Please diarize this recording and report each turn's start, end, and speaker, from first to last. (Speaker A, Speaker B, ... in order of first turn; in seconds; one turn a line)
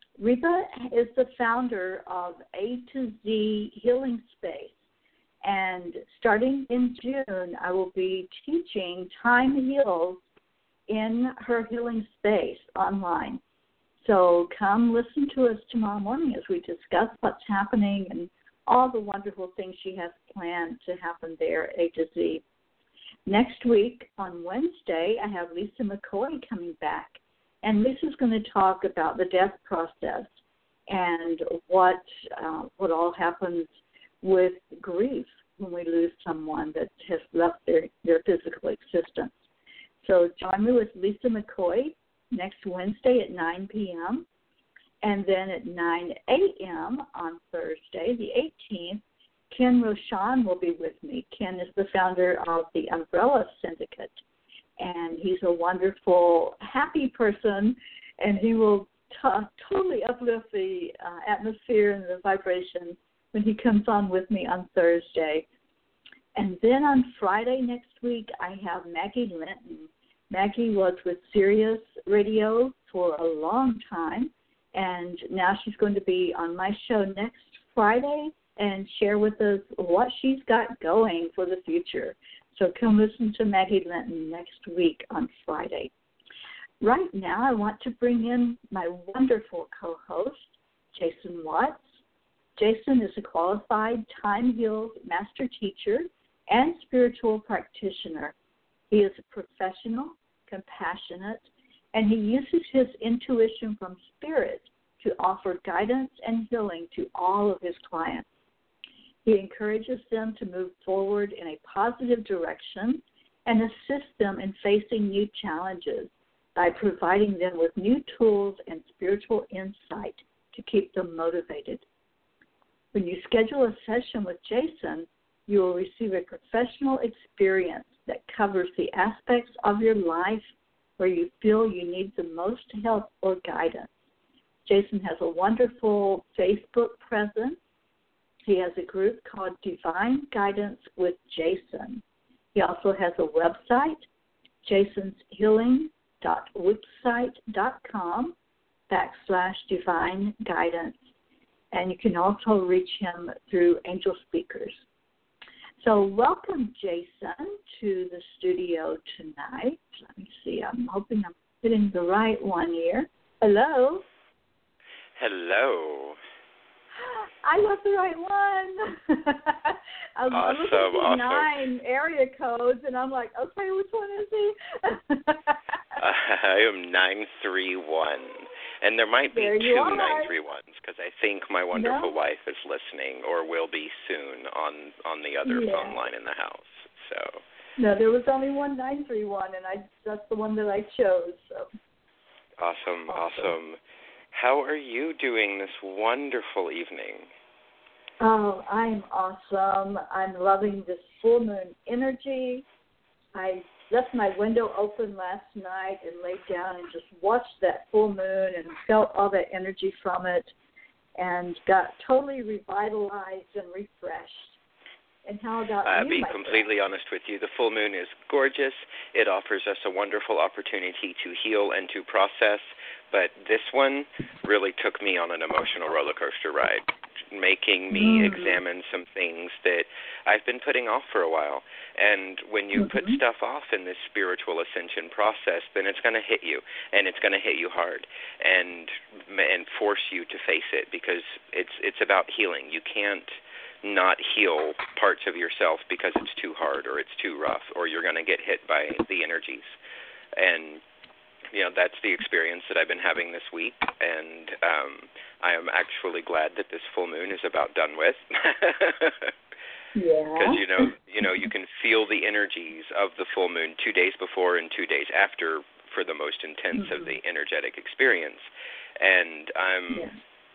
Speaker A: 0.2-4.8
Speaker A: 5.4-10.2
Speaker A: 10.9-13.4
Speaker A: 14.0-22.4
Speaker A: 23.3-30.3
Speaker A: 30.9-33.7
Speaker A: 34.2-39.3
Speaker A: 40.0-44.3
Speaker A: 45.0-54.2
Speaker A: 54.8-65.5
Speaker A: 66.3-85.9
Speaker A: 86.8-91.8
Speaker A: 92.6-98.3
Speaker A: 98.9-108.3
Speaker A: 109.2-121.8
Speaker A: 122.9-133.9
Speaker A: 134.7-137.6
Speaker A: 138.5-142.0
Speaker A: 142.6-144.1
Speaker A: 144.6-148.3
Speaker A: 148.9-151.0
Speaker A: 151.7-154.8
Speaker A: 155.8-164.1
Speaker B: 165.2-166.2
Speaker A: 167.0-175.6
Speaker B: 170.3-171.5
Speaker B: 176.0-187.4
Speaker A: 179.3-180.3
Speaker A: 181.8-182.1
Speaker A: 185.4-186.0
Speaker A: 187.8-191.7
Speaker B: 192.6-193.8
Speaker A: 193.1-193.5
Speaker B: 194.3-197.3
Speaker A: 198.2-202.7
Speaker A: 203.3-210.5
Speaker A: 211.2-214.6
Speaker A: 215.2-216.7
Speaker B: 215.8-249.7
Speaker A: 227.9-228.6
Speaker A: 232.8-233.2
Speaker B: 250.4-250.8
Speaker B: 251.5-259.3
Speaker A: 259.9-260.9
Speaker B: 260.4-268.5
Speaker A: 266.8-267.1
Speaker B: 269.0-270.1